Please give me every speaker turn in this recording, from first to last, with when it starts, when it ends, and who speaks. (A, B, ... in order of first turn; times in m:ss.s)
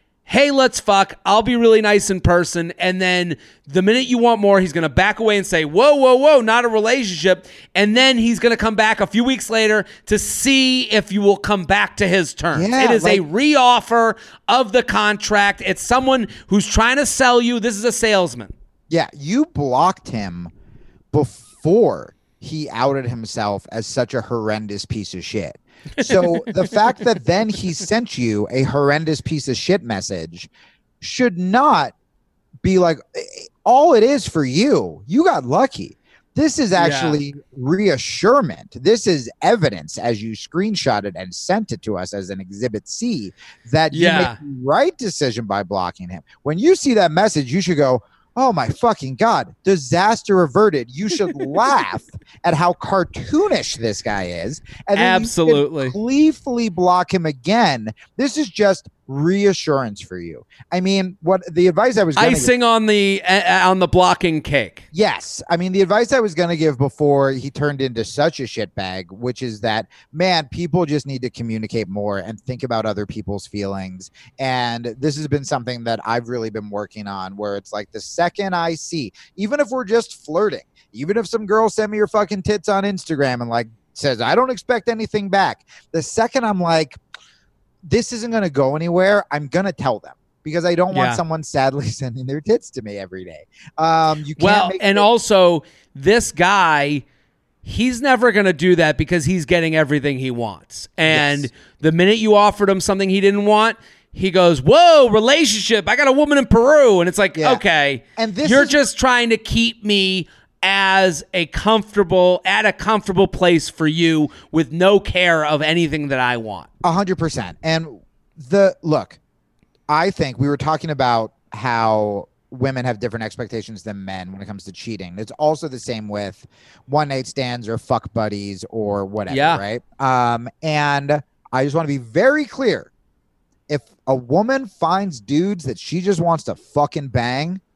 0:00.2-0:18.5 A
0:12.5-0:13.2 B
0:18.9-0:20.5 B
0:21.1-0:30.5 B
0:26.0-0:26.8 A
0:31.0-0:31.9 B
0:32.6-1:02.5 B
0:36.8-0:37.2 A
0:43.9-0:44.4 A
0:54.9-0:55.9 A
1:02.2-1:04.8 A
1:04.9-1:27.0 B
1:27.8-1:35.0 B
1:30.9-1:31.2 A
1:34.4-1:37.0 A
1:37.6-1:56.7 A
1:41.1-1:41.4 B
1:47.3-1:47.6 B
1:48.2-1:48.8 B
1:56.8-1:59.2 B
1:59.9-2:12.9 B
2:09.3-2:09.6 A
2:13.7-2:17.6 B